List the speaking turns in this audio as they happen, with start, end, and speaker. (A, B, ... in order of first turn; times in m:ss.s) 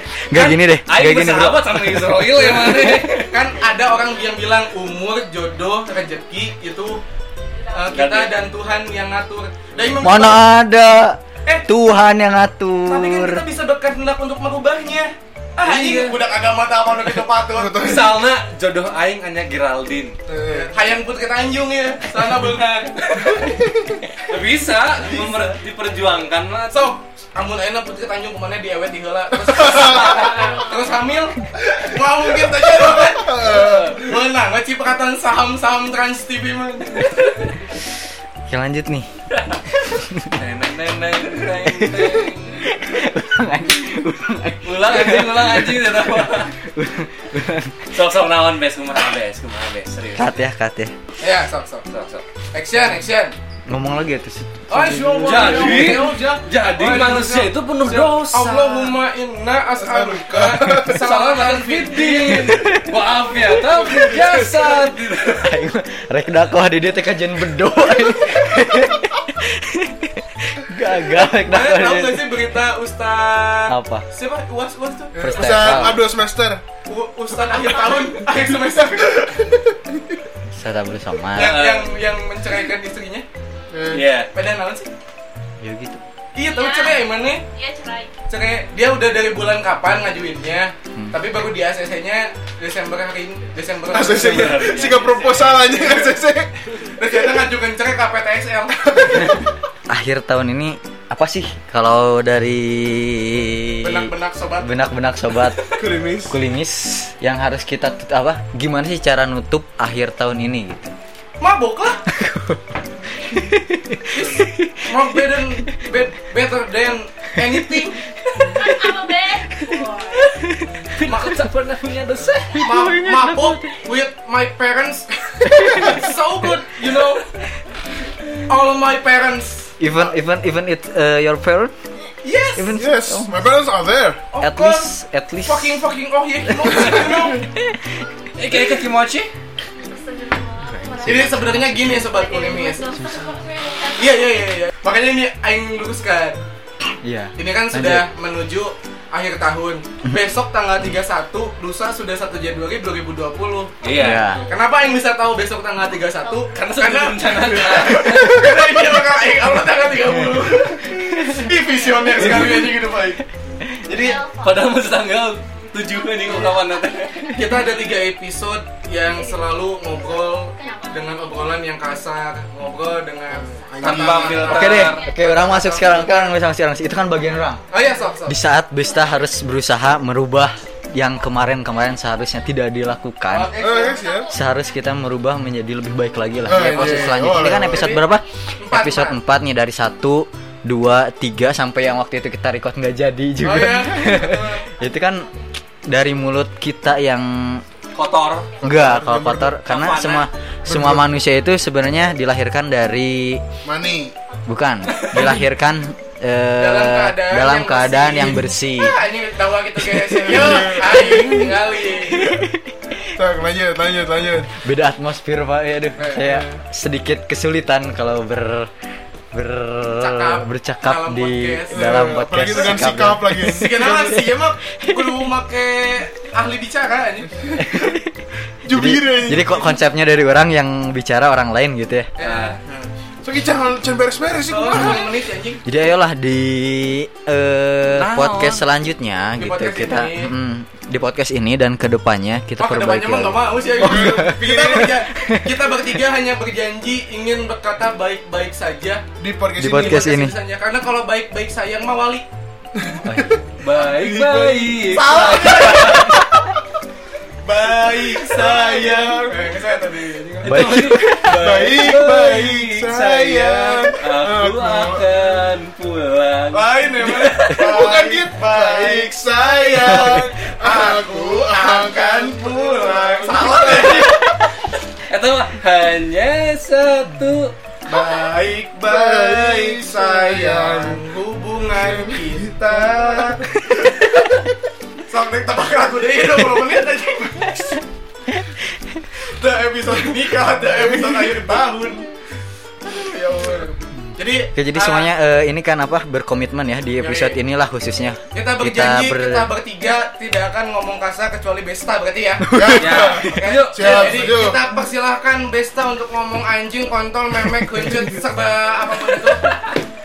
0:00.3-0:03.2 A
0:00.3-0:03.3 B
0:03.2-0:07.0 C
0:07.7-0:10.5 C
0:07.9-0:08.4 B
0:10.0-0:13.4 A
0:12.9-0:18.0 C
0:15.6-0:16.3 B
0:17.5-0:18.2 D
0:17.8-0:20.2 B
0:20.3-0:20.7 D
0:20.5-0:23.1 C
0:23.0-0:23.5 B
0:24.2-0:26.8 B
0:26.7-0:37.4 C
0:29.6-0:30.2 D
0:30.0-0:30.4 B
0:30.3-0:30.7 E
0:32.4-0:34.1 D
0:38.5-0:39.1 A
0:39.8-0:40.4 A
0:40.4-0:42.7 B
0:41.7-0:46.0 A
0:44.6-0:46.5 B
0:46.6-0:47.9 A
0:47.9-0:50.3 B
0:50.2-0:50.9 A
0:51.2-0:51.9 C
0:51.9-0:52.2 B
0:52.5-0:53.3 C
0:53.7-0:56.0 A
0:54.7-1:02.8 C
0:55.2-0:58.9 B
0:59.8-1:01.0 D
1:00.8-1:05.5 B
1:02.5-1:02.9 A
1:05.4-1:12.4 A
1:11.5-1:16.0 C
1:13.7-1:14.1 A
1:15.2-1:16.6 D
1:15.2-1:16.0 A
1:16.9-1:19.5 C
1:17.5-1:18.2 E
1:20.5-1:21.6 A
1:21.3-1:23.3 C
1:21.4-1:22.0 B
1:23.7-1:24.0 D
1:23.9-1:24.3 B
1:24.3-1:24.9 C
1:25.6-1:26.0 A
1:26.4-1:27.4 C
1:26.4-1:28.2 E
1:28.3-1:36.2 C
1:33.9-1:36.5 D
1:34.2-1:35.6 B
1:36.8-1:39.5 C
1:39.9-1:45.7 A
1:43.8-1:44.7 C
1:45.7-1:46.4 D
1:46.3-1:50.9 A
1:51.4-1:52.0 C
1:52.1-1:55.4 A
1:54.1-1:58.0 C
1:58.4-2:00.3 E
2:00.3-2:00.7 A
2:01.0-2:02.7 B
2:01.0-2:01.4 C
2:02.5-2:03.8 A
2:02.5-2:07.3 C
2:05.5-2:06.0 A
2:08.5-2:09.8 C
2:09.8-2:11.7 A
2:12.2-2:12.8 C
2:12.6-2:13.4 A
2:12.7-2:14.2 D
2:14.3-2:14.9 C
2:14.4-2:15.8 A
2:15.4-2:17.5 C
2:16.5-2:17.8 A
2:16.7-2:17.2 B
2:18.4-2:19.3 B
2:19.8-2:21.4 E
2:20.6-2:22.2 A
2:21.0-2:22.9 C
2:22.0-2:24.4 E
2:24.0-2:26.4 C
2:27.0-2:28.1 A
2:27.4-2:43.2 C
2:33.8-2:34.3 B
2:34.0-2:34.4 A
2:36.1-2:36.6 E
2:36.5-2:38.5 B
2:41.2-2:41.5 A
2:42.2-2:42.8 A
2:43.8-2:44.2 C
2:43.9-2:44.8 E
2:44.4-2:47.3 B
2:45.9-2:47.9 E
2:47.3-2:56.4 C
2:49.1-2:51.5 E
2:53.5-2:55.7 E
2:53.7-2:54.7 D
2:53.8-2:55.1 B
2:54.4-2:57.6 A
2:57.7-2:58.4 C
2:58.3-3:03.5 A
2:58.8-2:59.4 E
3:03.3-3:04.0 C
3:03.6-3:04.3 D
3:03.7-3:04.6 E
3:04.3-3:15.3 A
3:06.5-3:08.0 D
3:06.7-3:07.1 C
3:07.6-3:09.2 C
3:13.4-3:14.7 C
3:14.8-3:15.5 E
3:15.9-3:17.6 A
3:18.0-3:18.6 B
3:18.2-3:18.6 E
3:18.6-3:19.6 D
3:18.6-3:23.4 A
3:19.6-3:20.3 B
3:20.7-3:21.1 D
3:23.6-3:24.2 D
3:24.5-3:29.0 A
3:24.9-3:25.3 B
3:26.6-3:32.4 C
3:30.2-3:30.9 D
3:31.0-3:32.6 A
3:33.1-3:34.5 D
3:34.6-3:38.7 A
3:36.0-3:36.6 C
3:39.3-3:44.0 A
3:40.0-3:41.9 C
3:41.7-3:44.3 D
3:42.5-3:42.8 C
3:43.4-3:47.6 C
3:44.8-3:45.3 A
3:47.6-3:52.1 A
3:48.6-3:49.8 D
3:52.2-3:52.7 C
3:52.2-3:52.6 B
3:52.7-3:55.1 D
3:54.5-3:55.6 C
3:54.7-3:55.0 A
3:55.6-4:05.5 A
3:58.0-3:58.6 B
3:59.4-4:00.3 C
4:02.6-4:09.0 C
4:03.7-4:04.9 D
4:09.2-4:10.1 D
4:09.6-4:10.4 A
4:09.6-4:12.3 C
4:12.9-4:16.0 D
4:13.1-4:13.4 A
4:13.6-4:16.2 B
4:14.9-4:16.2 C
4:17.4-4:20.7 C
4:17.8-4:19.6 D
4:20.4-4:27.6 B
4:20.4-4:21.4 A
4:21.3-4:25.1 D
4:26.5-4:34.4 C
4:27.6-4:34.4 D
4:35.1-4:37.5 B
4:37.9-4:43.9 C
4:38.8-4:41.1 D
4:41.8-4:43.5 D
4:45.1-4:47.8 C
4:48.4-4:49.0 A
4:49.2-4:52.1 C
4:50.9-4:51.5 D
4:52.8-4:55.1 C
4:54.6-4:59.5 A
4:57.0-4:57.4 C
4:58.3-5:09.6 C
5:02.5-5:04.6 D
5:02.8-5:04.3 B